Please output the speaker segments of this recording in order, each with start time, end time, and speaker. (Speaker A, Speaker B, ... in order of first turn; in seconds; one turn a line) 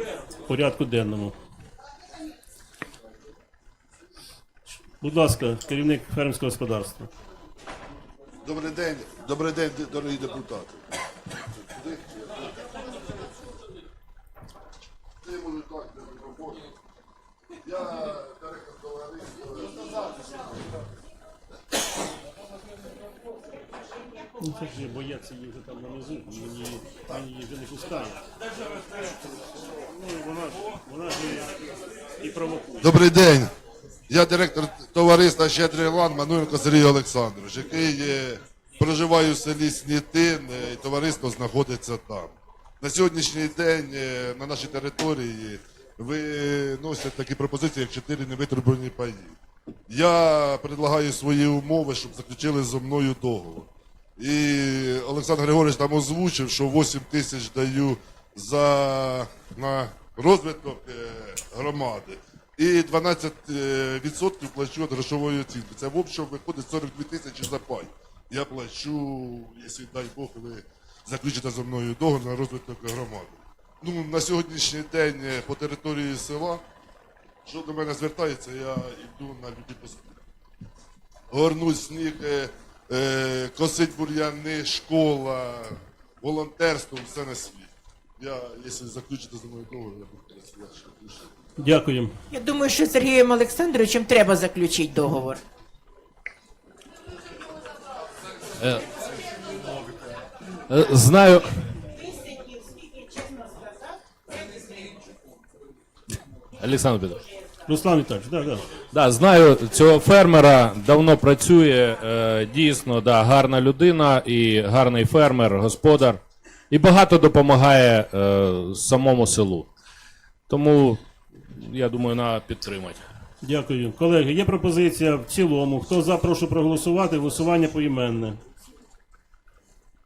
Speaker A: 0.5-1.4
Speaker A: 4.9-7.1
Speaker B: 8.4-10.8
Speaker B: 11.6-12.5
Speaker B: 15.2-16.7
Speaker B: 17.6-20.3
Speaker A: 24.4-28.2
Speaker A: 29.9-31.6
Speaker A: 32.2-32.9
Speaker B: 32.8-33.5
Speaker B: 34.1-49.4
Speaker B: 49.9-76.6
Speaker B: 77.5-80.2
Speaker B: 81.3-91.3
Speaker A: 91.6-92.2
Speaker C: 92.3-95.4
Speaker D: 98.6-98.9
Speaker D: 100.7-101.8
Speaker D: 106.6-107.2
Speaker A: 107.7-108.7
Speaker D: 108.9-119.7
Speaker D: 120.5-123.0
Speaker A: 123.4-128.4